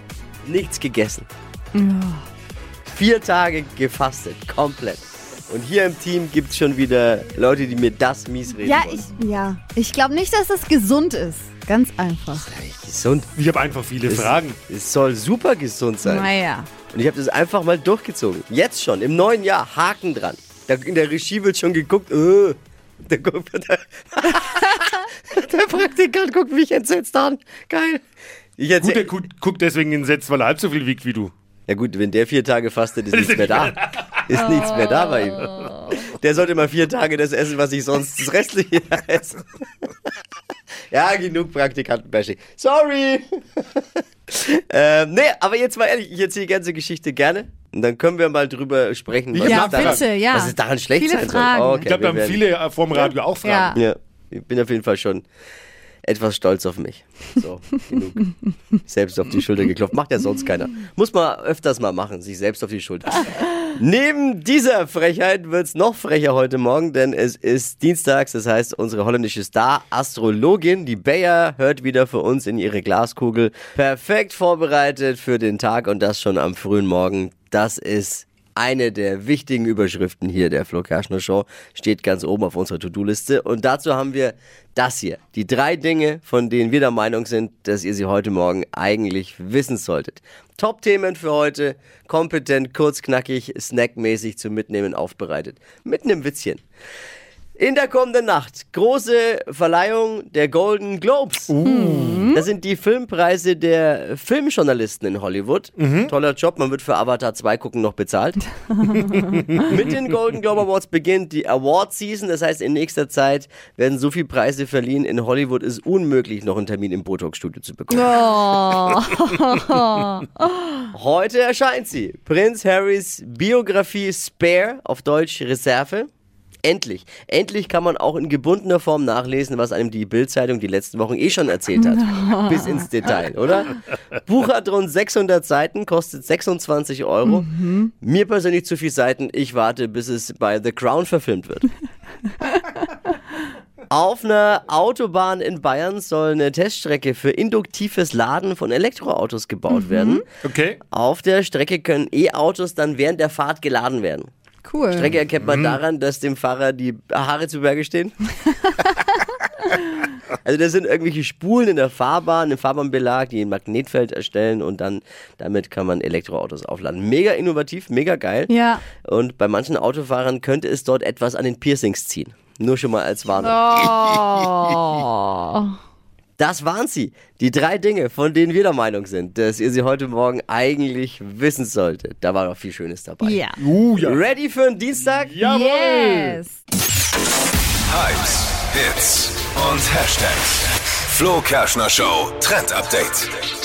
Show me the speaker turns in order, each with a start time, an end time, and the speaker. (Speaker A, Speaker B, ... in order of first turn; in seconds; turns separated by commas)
Speaker A: 0.4-1.3, Speaker B: 1.7-2.2, Speaker A: 2.9-9.0, Speaker B: 8.6-12.5, Speaker A: 12.3-13.3, Speaker C: 13.3-14.6, Speaker A: 14.1-16.3, Speaker B: 16.0-16.7, Speaker A: 16.9-28.0, Speaker A: 28.6-29.1, Speaker C: 28.8-31.3, Speaker A: 31.7-33.8, Speaker C: 33.1-34.2, Speaker A: 34.3-39.4, Speaker B: 34.7-35.7, Speaker A: 40.9-52.4, Speaker C: 49.3-50.0, Speaker B: 49.4-51.9, Speaker C: 51.8-53.8, Speaker B: 53.4-53.8, Speaker A: 53.7-55.2, Speaker A: 56.0-58.2, Speaker A: 58.9-96.6, Speaker A: 97.6-101.5, Speaker C: 101.5-102.3, Speaker B: 101.6-102.4, Speaker A: 102.3-108.4, Speaker C: 105.8-106.1, Speaker B: 108.9-109.2, Speaker A: 109.7-118.7, Speaker B: 117.9-120.9, Speaker A: 120.9-126.1, Speaker A: 126.6-141.7, Speaker B: 131.8-132.8, Speaker B: 137.2-137.9, Speaker A: 143.9-150.2, Speaker B: 149.7-150.2, Speaker C: 150.4-150.8, Speaker A: 150.9-154.3, Speaker B: 154.6-155.1, Speaker A: 154.9-158.2, Speaker C: 155.4-155.8, Speaker A: 160.4-168.5, Speaker B: 168.5-168.8, Speaker A: 169.0-174.6, Speaker B: 173.4-175.7, Speaker A: 176.4-183.4, Speaker B: 183.2-183.6, Speaker C: 183.6-184.2, Speaker A: 183.9-185.3, Speaker C: 185.2-186.4, Speaker B: 185.4-186.6, Speaker D: 187.9-193.3